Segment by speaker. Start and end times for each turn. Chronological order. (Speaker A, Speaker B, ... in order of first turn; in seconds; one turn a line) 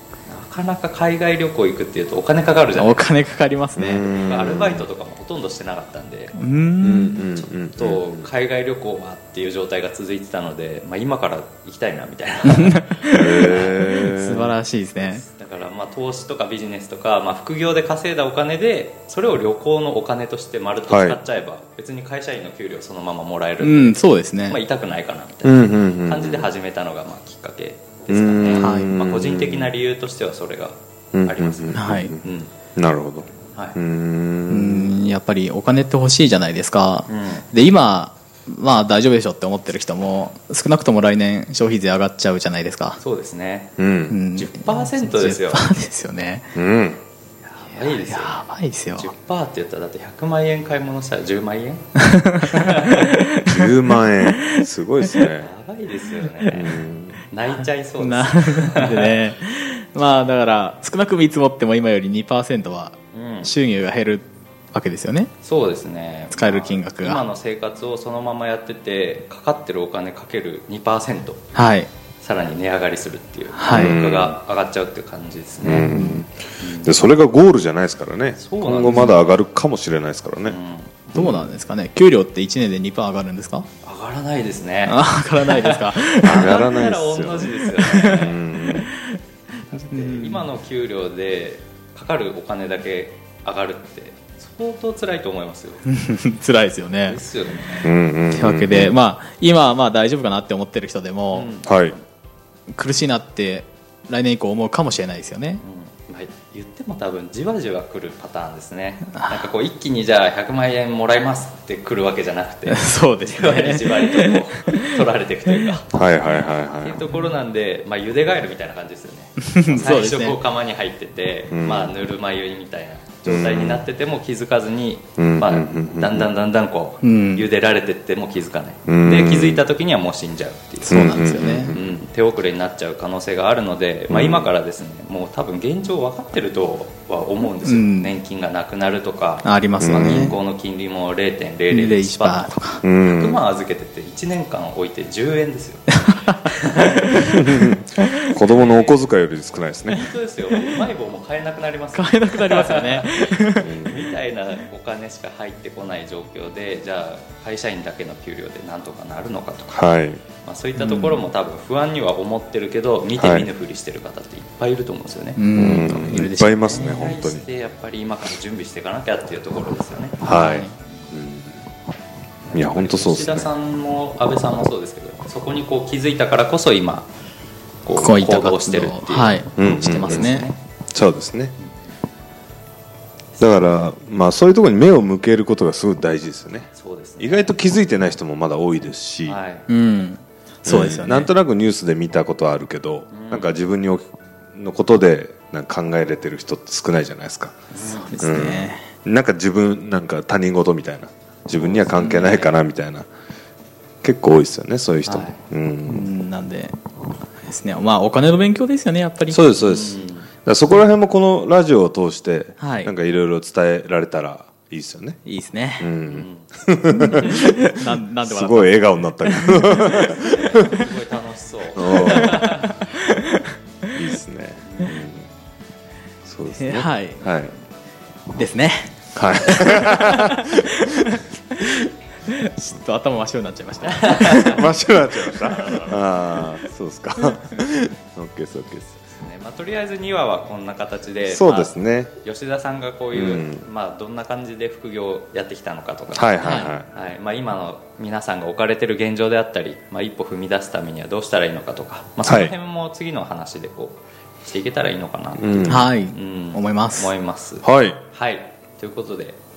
Speaker A: 0.3-3.1
Speaker B: 2.7-4.1
Speaker C: 3.8-4.8
Speaker A: 4.0-6.4
Speaker B: 6.3-7.2
Speaker C: 6.8-8.2
Speaker A: 7.3-14.0
Speaker B: 12.5-15.2
Speaker C: 13.1-14.5
Speaker A: 14.9-32.5
Speaker C: 20.9-21.2
Speaker B: 23.6-24.6
Speaker C: 25.4-26.5
Speaker C: 28.1-29.7
Speaker B: 28.6-28.9
Speaker C: 31.1-32.2
Speaker B: 31.7-32.1
Speaker C: 32.8-34.9
Speaker B: 34.5-43.0
Speaker A: 37.1-37.5
Speaker A: 43.0-43.8
Speaker C: 43.8-44.2
Speaker B: 44.1-46.5
Speaker A: 44.3-45.7
Speaker C: 46.5-47.0
Speaker A: 47.4-53.0
Speaker B: 47.6-49.1
Speaker B: 52.0-53.7
Speaker C: 53.5-55.5
Speaker A: 55.2-59.2
Speaker C: 56.5-57.2
Speaker B: 58.0-65.3
Speaker A: 63.1-63.5
Speaker A: 65.4-71.5
Speaker B: 66.3-67.2
Speaker B: 71.5-71.9
Speaker A: 72.2-75.9
Speaker B: 73.5-74.0
Speaker C: 73.7-74.3
Speaker C: 75.6-80.6
Speaker B: 75.7-76.2
Speaker A: 76.6-77.0
Speaker A: 78.4-79.2
Speaker A: 80.5-81.1
Speaker B: 81.1-83.7
Speaker C: 81.1-81.5
Speaker A: 83.8-88.4
Speaker B: 84.8-86.6
Speaker C: 86.2-88.9
Speaker B: 87.8-89.2
Speaker A: 89.7-95.8
Speaker B: 89.8-90.5
Speaker B: 95.8-97.2
Speaker A: 97.0-97.9
Speaker C: 97.8-99.0
Speaker B: 98.3-101.5
Speaker A: 101.3-102.0
Speaker C: 101.6-101.9
Speaker B: 102.7-105.6
Speaker A: 105.6-147.2
Speaker B: 109.1-109.5
Speaker B: 112.7-114.9
Speaker C: 115.9-117.0
Speaker B: 119.4-120.4
Speaker C: 121.5-121.9
Speaker C: 123.2-123.8
Speaker C: 125.2-126.3
Speaker B: 127.0-127.5
Speaker C: 128.9-129.6
Speaker B: 130.8-131.7
Speaker C: 130.9-131.9
Speaker C: 134.1-134.5
Speaker B: 137.6-138.1
Speaker B: 139.4-140.3
Speaker C: 139.8-140.3
Speaker B: 141.7-142.8
Speaker C: 142.8-143.4
Speaker B: 145.9-147.4
Speaker C: 147.1-150.1
Speaker A: 148.4-149.0
Speaker A: 149.8-159.8
Speaker B: 151.9-153.7
Speaker C: 153.6-154.1
Speaker C: 159.7-160.2
Speaker A: 160.4-165.4
Speaker B: 160.8-161.2
Speaker C: 163.2-163.5
Speaker B: 165.3-167.2
Speaker C: 165.5-167.4
Speaker A: 166.1-170.2
Speaker C: 170.2-171.6
Speaker B: 170.2-170.7
Speaker A: 172.5-177.1
Speaker C: 172.5-173.5
Speaker A: 177.8-180.6
Speaker B: 177.9-180.5
Speaker C: 179.6-180.4
Speaker C: 180.9-181.5
Speaker A: 183.4-183.9
Speaker C: 183.4-186.7
Speaker A: 186.7-187.5
Speaker C: 187.2-189.4
Speaker A: 189.2-189.7
Speaker B: 189.7-191.3
Speaker C: 190.7-197.6
Speaker A: 193.1-193.6
Speaker A: 197.7-198.5
Speaker B: 197.8-198.9
Speaker C: 198.2-203.1
Speaker A: 201.5-202.5
Speaker C: 204.0-206.1
Speaker A: 205.1-205.4
Speaker B: 205.9-206.8
Speaker B: 207.4-209.4
Speaker C: 209.3-215.2
Speaker A: 209.6-210.3
Speaker B: 212.6-212.9
Speaker B: 215.2-215.9
Speaker C: 215.8-220.8
Speaker A: 216.1-216.5
Speaker B: 217.0-220.0
Speaker A: 219.8-222.7
Speaker C: 221.8-222.4
Speaker B: 221.8-223.4
Speaker C: 223.9-225.2
Speaker A: 224.7-225.0
Speaker C: 226.2-227.5
Speaker B: 226.5-227.3
Speaker B: 228.3-234.6
Speaker C: 229.1-230.8
Speaker A: 233.8-234.6
Speaker C: 234.3-239.0
Speaker B: 235.3-236.4
Speaker A: 239.1-259.4
Speaker C: 241.2-242.1
Speaker C: 243.1-243.6
Speaker C: 246.1-246.9
Speaker B: 246.4-246.7
Speaker C: 252.2-252.5
Speaker C: 255.3-255.9
Speaker B: 255.7-257.1
Speaker C: 257.6-258.0